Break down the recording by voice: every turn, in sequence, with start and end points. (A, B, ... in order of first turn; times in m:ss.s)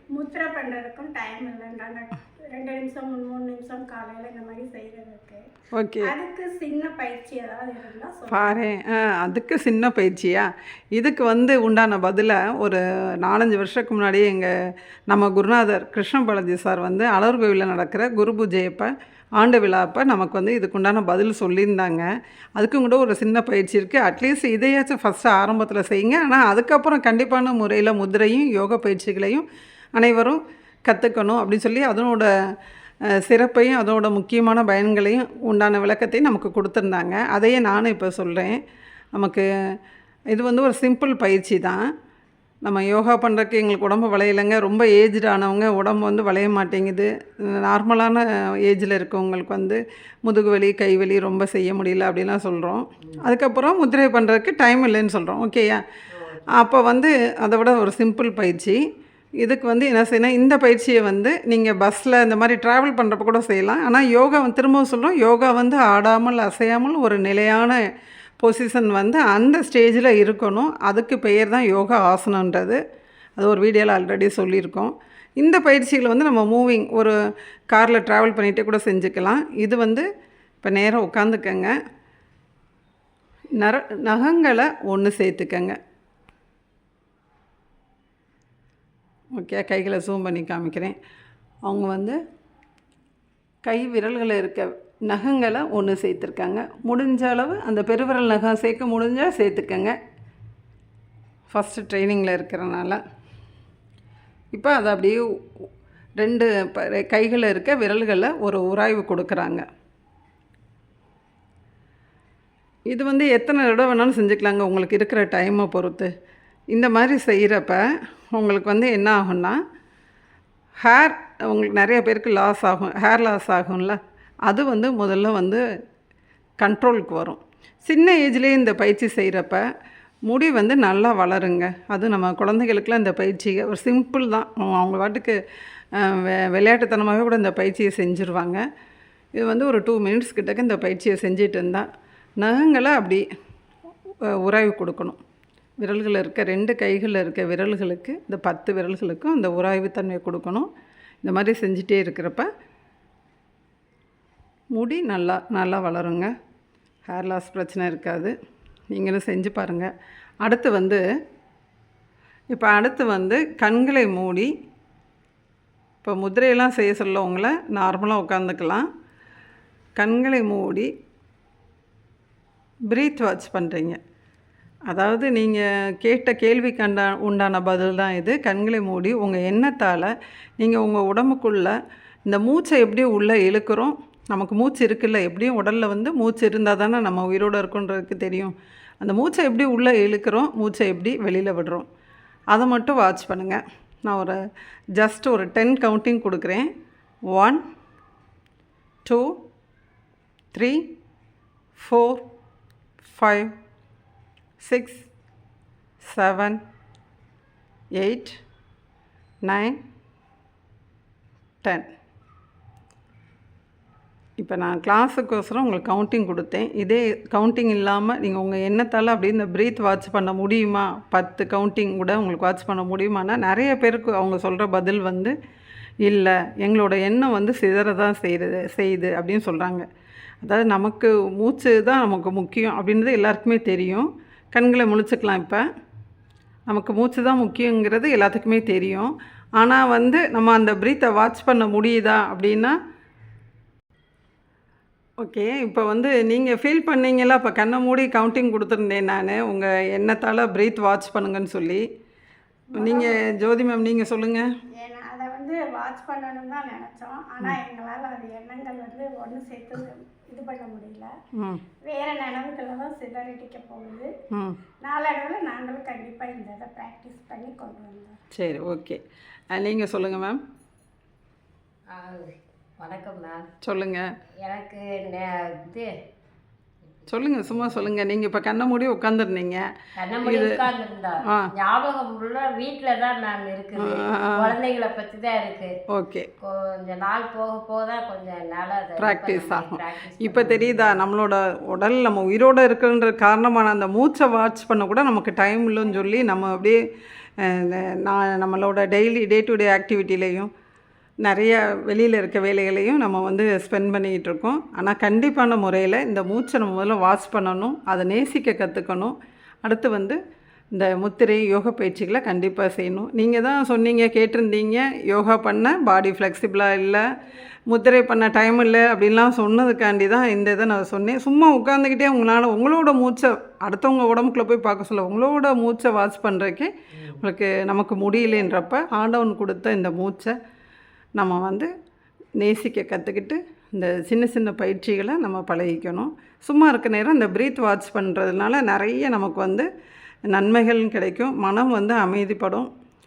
0:00.1-0:05.4 A
0:05.7-0:06.1 B
0:06.0-0:08.6 A
0:08.3-0:14.5 B
0:15.1-0:22.0 B
0:22.6-0:32.3 B
0:33.2-0:38.6 B
0:39.1-0:39.4 B
0:40.3-0:41.8 B
0:42.6-0:55.8 B
0:56.1-0:56.4 C
0:56.5-0:58.8 B
0:59.4-1:07.8 B
1:08.4-1:12.8 B
1:13.4-1:17.1 B
1:17.7-1:20.0 B
1:20.6-1:21.7 B
1:23.6-1:25.8 B
1:29.4-1:31.0 B
1:31.6-1:32.2 B
1:33.6-1:39.9 B
1:41.5-1:43.0 B
1:44.5-1:45.6 B
1:46.2-1:49.6 B
1:52.9-1:56.1 B
1:56.7-1:59.6 B
2:00.8-2:05.6 B
2:06.6-2:09.6 B
2:10.3-2:15.4 B
2:15.9-2:18.6 B
2:19.4-2:21.8 B
2:22.4-2:23.2 B
2:24.4-2:25.2 B
2:25.8-2:30.7 B
2:31.2-2:32.5 B
2:34.7-2:36.3 B
2:37.1-2:38.3 B
2:38.9-2:39.9 B
2:40.4-2:41.0 B
2:42.5-2:44.5 B
2:46.0-2:48.9 B
2:50.0-2:50.9 B
2:52.9-2:54.0 B
2:54.9-3:01.7 B
3:02.3-3:11.9 B
3:12.5-3:14.4 B
3:15.0-3:16.7 B
3:17.3-3:17.6 B
3:19.0-3:19.4 B
3:20.5-3:20.9 B
3:21.8-3:22.2 B
3:23.0-3:23.5 B
3:24.6-3:25.1 B
3:26.0-3:26.6 B
3:28.0-3:28.4 B
3:29.4-3:29.8 B
3:31.6-3:31.9 B
3:34.4-3:45.3 B
3:46.0-3:49.8 B
3:50.4-3:55.6 B
3:56.7-4:02.8 B
4:05.2-4:11.8 B
4:12.7-4:13.3 A
4:12.7-4:14.4 B
4:14.7-4:21.1 A
4:21.3-4:21.6 B
4:21.8-4:24.1 A
4:24.3-4:24.6 B
4:24.8-4:28.2 A
4:28.3-4:29.0 B
4:29.5-4:30.4 B
4:31.9-4:33.5 C
4:33.6-4:34.0 B
4:34.4-4:35.9 C
4:36.9-4:37.9 C
4:37.1-4:39.6 B
4:40.0-4:45.7 C
4:40.2-4:40.6 B
4:43.8-4:44.5 B
4:45.9-4:46.3 B
4:46.4-4:51.0 C
4:49.0-4:56.8 B
4:56.0-4:56.3 A
4:57.4-5:00.5 B
5:01.2-5:10.2 B
5:10.7-5:17.0 B
5:17.7-5:30.3 B
5:31.2-5:31.7 B
5:32.4-5:39.7 B
5:40.3-5:42.7 B